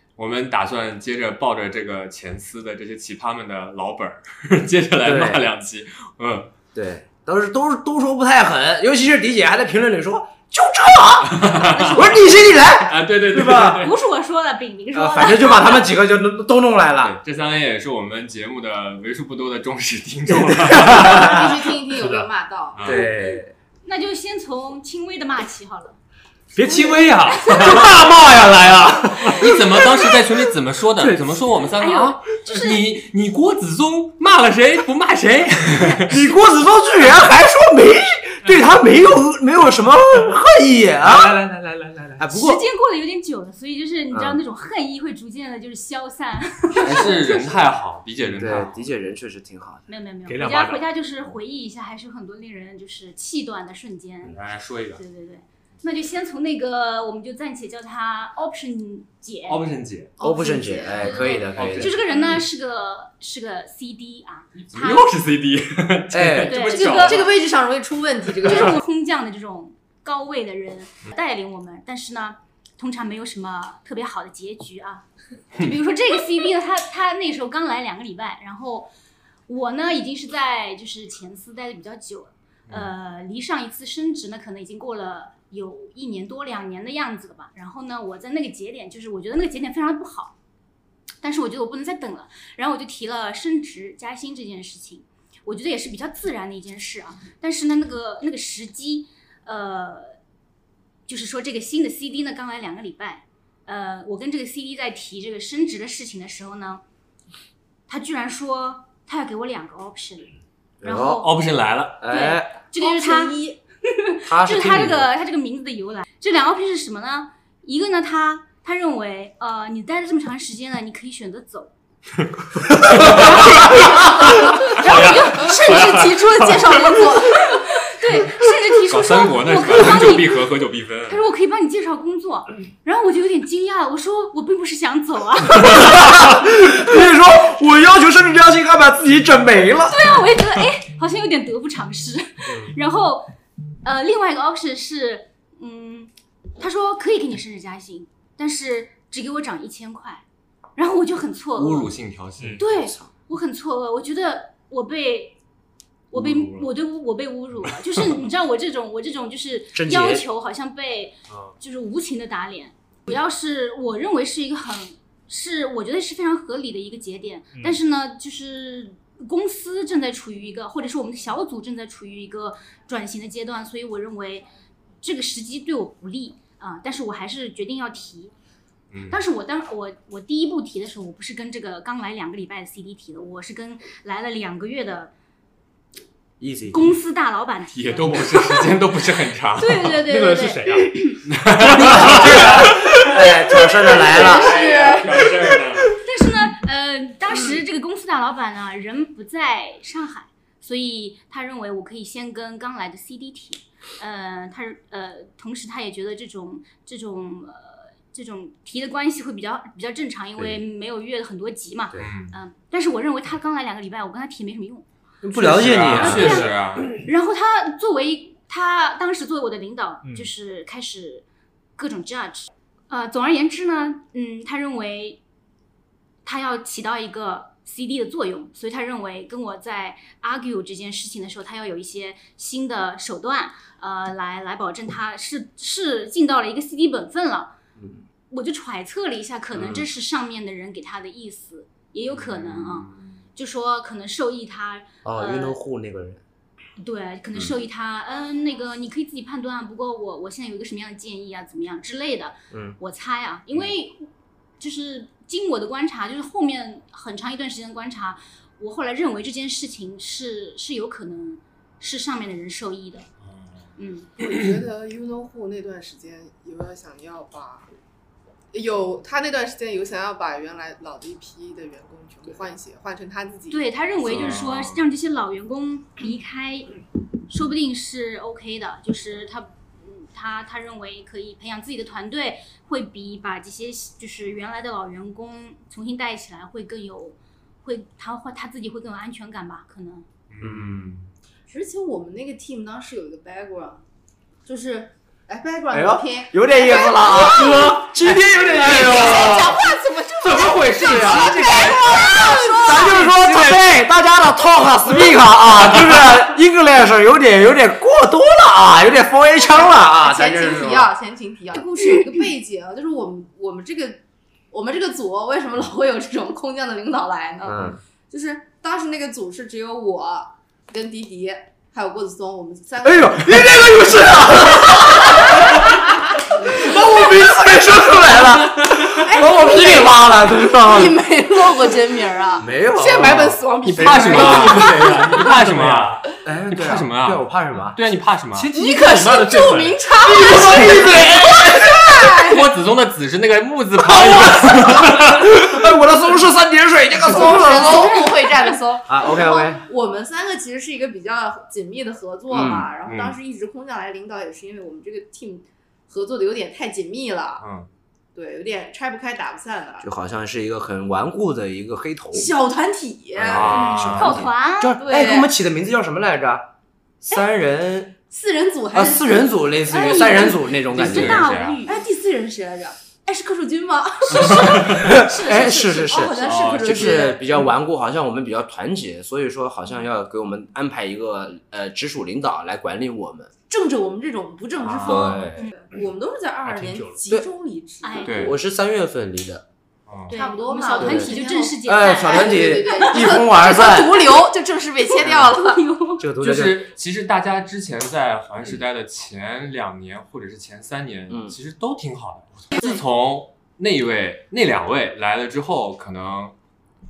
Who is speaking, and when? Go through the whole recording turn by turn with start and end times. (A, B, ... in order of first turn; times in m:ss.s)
0:00.2-0:06.5 A
0:05.0-0:05.5 B
0:06.7-0:13.9 B
0:11.3-0:12.1 A
0:12.8-0:14.0 A
0:13.8-0:15.9 C
0:14.9-0:17.2 B
0:17.0-0:21.3 A
0:20.7-0:21.6 B
0:20.8-0:23.0 D
0:22.0-0:22.3 E
0:22.8-0:23.1 A
0:22.8-0:23.5 B
0:23.8-0:26.0 C
0:26.5-0:29.4 E
0:26.6-0:29.0 B
0:29.3-0:36.2 A
0:31.0-0:31.4 B
0:31.8-0:32.8 C
0:36.1-0:41.4 B
0:41.0-0:42.2 E
0:42.2-0:42.6 B
0:42.3-0:47.6 C
0:44.1-0:44.4 B
0:46.7-0:48.9 A
0:46.8-0:47.3 B
0:48.3-0:49.8 B
0:49.9-0:54.4 C
0:50.3-0:50.8 E
0:54.3-0:55.0 A
0:55.0-0:59.6 C
0:59.5-1:00.1 A
1:00.2-1:01.3 D
1:00.2-1:02.0 B
1:00.8-1:05.1 C
1:01.5-1:02.4 A
1:04.6-1:07.4 A
1:06.1-1:06.7 B
1:06.5-1:07.2 C
1:06.7-1:08.8 D
1:08.4-1:18.9 C
1:19.5-1:30.4 C
1:31.2-1:40.2 C
1:41.1-1:46.8 C
1:47.9-1:51.3 C
1:50.8-1:51.3 B
1:51.2-1:52.0 A
1:52.0-1:52.6 B
1:52.0-1:53.4 C
1:52.8-1:53.6 D
1:54.0-2:01.7 C
1:54.3-1:55.1 B
2:02.9-2:05.8 C
2:03.5-2:07.8 D
2:04.8-2:05.8 E
2:07.6-2:10.3 C
2:08.9-2:11.2 A
2:11.1-2:16.0 C
2:15.6-2:20.2 B
2:19.9-2:23.3 C
2:23.8-2:30.2 C
2:30.8-2:31.9 C
2:31.6-2:32.6 A
2:32.6-2:35.4 C
2:32.7-2:33.1 B
2:36.1-2:54.5 C
2:36.1-2:36.6 A
2:39.7-2:40.3 B
2:41.3-2:41.6 E
2:47.5-2:47.8 E
2:55.0-2:58.3 C
2:58.9-2:59.2 A
2:59.1-3:05.1 C
3:06.4-3:06.9 B
3:06.7-3:08.6 C
3:07.7-3:09.9 A
3:09.6-3:11.2 C
3:10.0-3:12.8 E
3:11.3-3:13.0 A
3:11.7-3:14.6 B
3:14.0-3:15.3 D
3:14.1-3:15.9 A
3:16.0-3:34.9 C
3:32.0-3:32.4 A
3:35.2-3:36.4 B
3:35.4-3:36.9 A
3:35.9-3:41.2 C
3:40.0-3:40.3 E
3:41.8-3:45.2 C
3:46.2-3:57.5 C
3:57.8-3:58.1 B
3:58.3-4:05.6 C
3:59.6-3:59.9 A
4:02.1-4:03.2 A
4:05.0-4:06.2 B
4:06.8-4:14.1 C
4:12.5-4:12.8 B
4:14.6-4:23.1 C
4:23.2-4:23.7 A
4:23.8-4:24.1 C
4:24.2-4:27.7 F
4:28.5-4:33.6 F
4:33.5-4:50.1 C
4:34.0-4:34.8 A
4:50.3-4:51.1 A
4:50.4-4:50.9 B
4:51.5-4:53.8 D
4:54.5-4:57.9 D
4:55.7-4:59.6 B
4:58.4-5:03.1 D
5:00.2-5:10.9 B
5:00.5-5:01.8 E
5:03.1-5:03.5 E
5:09.5-5:23.9 D
5:17.4-5:17.8 B
5:22.8-5:25.8 B
5:25.0-5:25.3 D
5:26.3-5:31.0 B
5:26.4-5:27.1 D
5:28.7-5:32.5 D
5:32.4-5:33.4 B
5:32.7-5:34.7 F
5:33.6-5:38.5 A
5:33.8-5:36.0 E
5:36.2-5:37.8 B
5:38.3-5:39.2 B
5:38.6-5:42.4 D
5:38.8-5:39.7 F
5:39.4-5:39.8 E
5:40.0-5:42.1 B
5:42.3-5:45.3 A
5:43.8-5:48.1 B
5:47.0-5:57.4 D
5:48.9-5:49.6 B
5:52.3-5:52.7 B
5:52.8-5:53.2 A
5:57.4-5:57.7 A
5:58.2-5:59.9 D
5:59.8-6:02.3 B
6:02.1-6:03.6 D
6:03.2-6:06.5 B
6:03.2-6:04.2 A
6:03.5-6:04.8 C
6:04.8-6:05.3 D
6:07.0-6:08.0 B
6:08.1-6:10.3 D
6:08.7-6:11.3 B
6:09.7-6:11.8 C
6:10.7-6:11.6 A
6:11.6-6:17.5 D
6:14.1-6:16.4 C
6:14.6-6:23.3 B
6:16.2-6:17.0 A
6:23.5-6:28.3 D
6:24.6-6:25.2 A
6:24.8-6:25.4 B
6:26.4-6:27.0 E
6:27.8-6:28.3 C
6:28.0-6:28.4 A
6:28.1-6:29.4 B
6:29.9-6:30.2 A
6:30.1-6:33.2 C
6:30.1-6:35.7 D
6:30.8-6:34.2 B
6:35.0-6:35.4 B
6:35.3-6:36.0 C
6:36.0-6:36.7 B
6:36.2-6:46.4 A
6:41.1-6:41.4 B